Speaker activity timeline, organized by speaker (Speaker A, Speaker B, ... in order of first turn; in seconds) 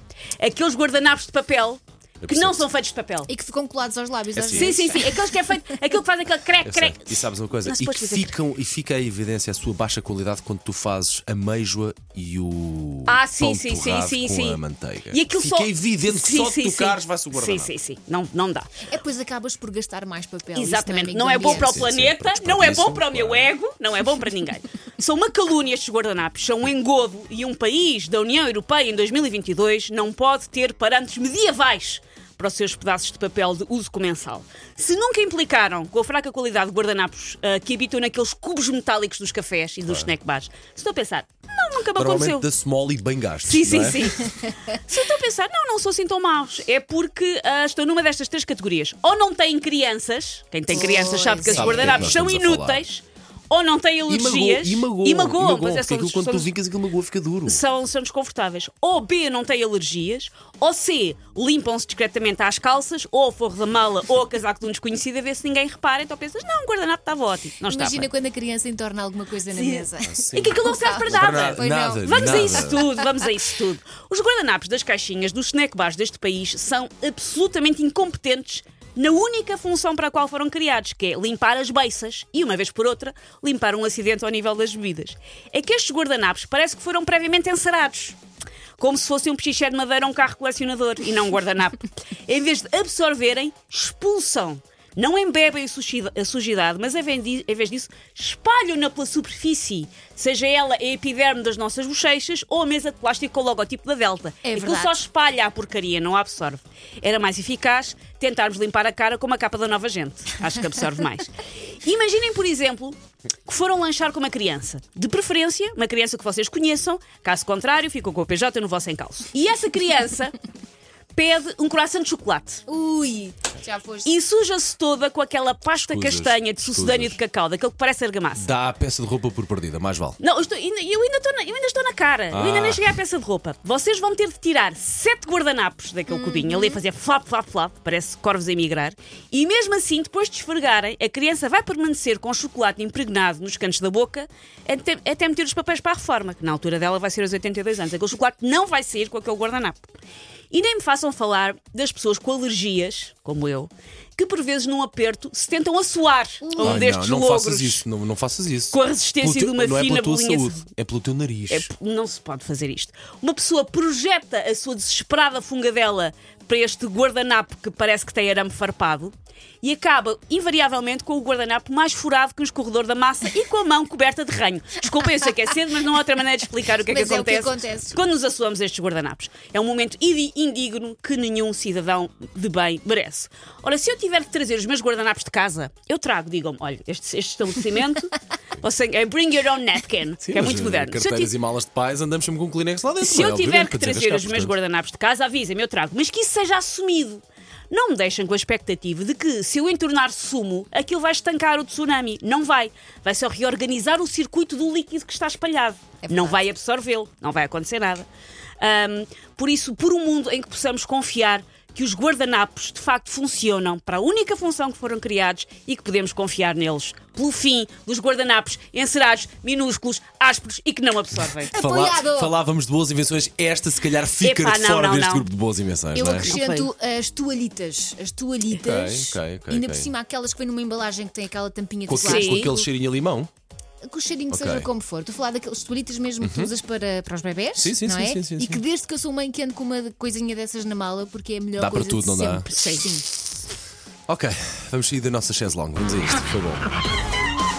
Speaker A: 0.4-3.3, 4.5-8.3, 13.1-18.7, 20.5-42.5, 43.4-56.5, 57.5-68.1, 69.5-88.2, 88.8-111.3, 111.8-120.3, 121.1-122.7, 124.0-128.5, 130.2-149.9, 150.5-157.8, 158.7-160.6, 161.5-191.3, 193.0-208.1, 208.6-221.5, 224.2-225.3, 226.2-226.7, 232.0-232.5, 242.6-242.8
Speaker B: 2.2-2.6, 4.3-5.1, 6.6-17.7, 21.4-23.5, 39.9-40.1, 41.9-44.1, 51.5-52.8, 54.1-57.6, 70.0-72.8, 125.7-127.2, 128.3-130.2, 132.3-132.9, 156.6-161.7, 190.2-194.5, 221.5-226.3, 228.5-229.9, 231.9-233.3, 234.3-234.7, 236.2-236.5, 237.6-238.6, 241.6-242.5, 244.1-246.7
Speaker C: 3.3-5.1, 18.9-21.9, 50.7-52.1, 67.7-72.9, 104.4-105.0, 122.7-124.2, 136.1-136.8, 156.4-156.9, 176.8-178.0, 206.0-206.4, 221.5-222.3, 225.9-232.7, 233.8-243.0